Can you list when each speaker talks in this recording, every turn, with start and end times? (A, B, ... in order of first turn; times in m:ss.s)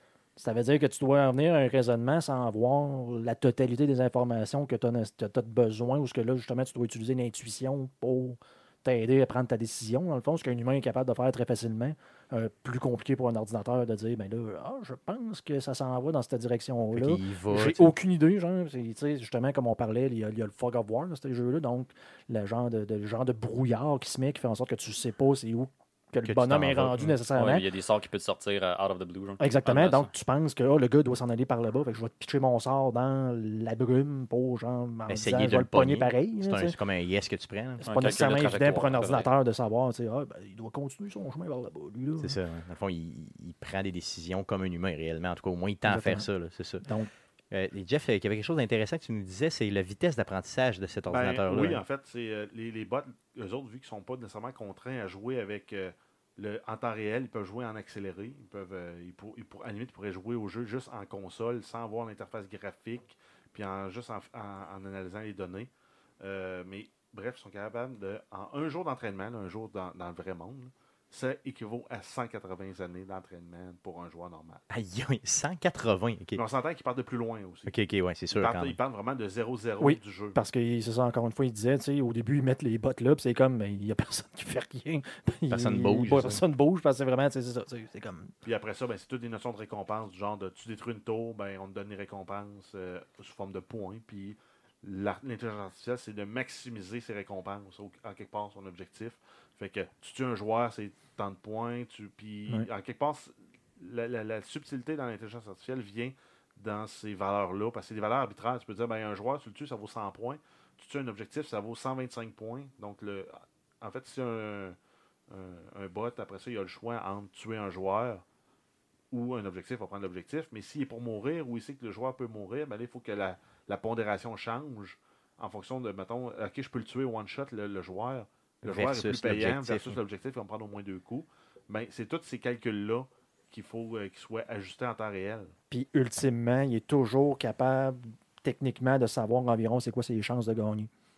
0:00.4-0:27.6 A
0:16.9-0:17.9 B
0:26.2-0:27.2 B
0:27.3-0:30.1 C
0:29.4-0:36.8 A
0:35.1-0:37.9 B
0:37.8-0:42.4 A
0:37.8-0:39.3 C
0:42.2-0:46.8 B
0:45.9-0:46.3 A
0:46.8-0:47.1 A
0:47.5-0:51.8 B
0:51.1-1:14.6 D
1:14.7-1:16.4 B
1:16.4-1:17.7 D
1:17.7-1:18.8 B
1:18.3-1:20.4 D
1:19.8-1:28.3 A
1:25.5-1:26.4 B
1:28.4-1:54.8 D
1:55.3-1:58.2 D
1:59.1-2:15.5 D
2:08.6-2:10.0 B
2:15.7-2:20.9 A